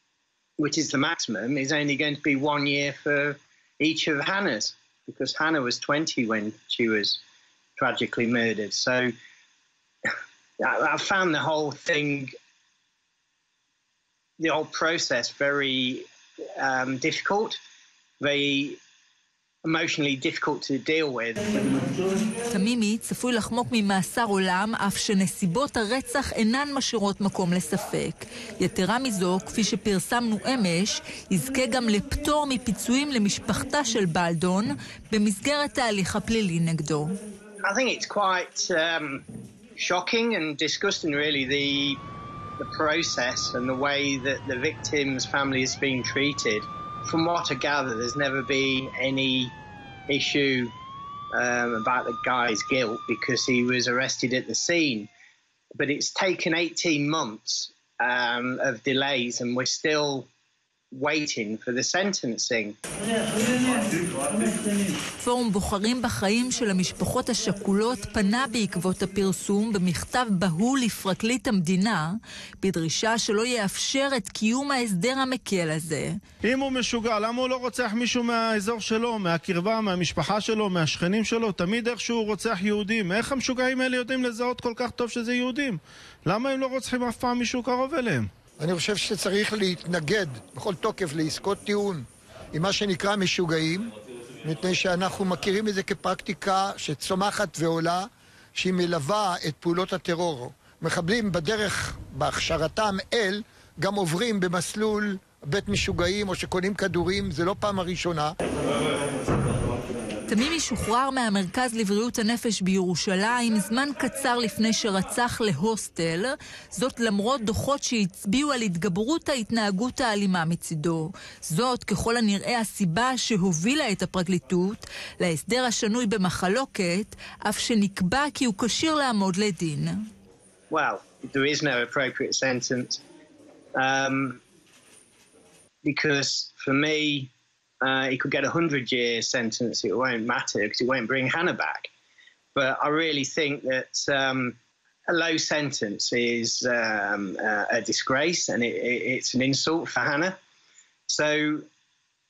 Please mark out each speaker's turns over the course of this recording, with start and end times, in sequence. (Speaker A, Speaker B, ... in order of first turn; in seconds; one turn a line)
Speaker A: 0.6-7.2
Speaker A: 7.8-9.1
Speaker A: 10.1-12.3
Speaker A: 14.4-16.1
Speaker A: 16.6-17.6
Speaker A: 18.2-18.8
Speaker A: 19.6-21.8
Speaker B: 22.5-37.2
Speaker A: 37.6-39.2
Speaker A: 39.8-42.0
Speaker A: 42.6-49.5
Speaker A: 50.1-50.7
Speaker A: 51.3-55.1
Speaker A: 55.8-60.3
Speaker A: 60.9-62.8
Speaker B: 65.2-76.2
Speaker C: 76.5-88.3
Speaker D: 88.6-93.9
Speaker D: 94.4-108.3
Speaker B: 110.3-130.0
Speaker A: 130.7-133.0
Speaker A: 133.8-134.4
Speaker A: 135.8-137.3
Speaker A: 137.8-141.9
Speaker A: 142.6-144.6
Speaker A: 145.1-150.4
Speaker A: 151.1-151.7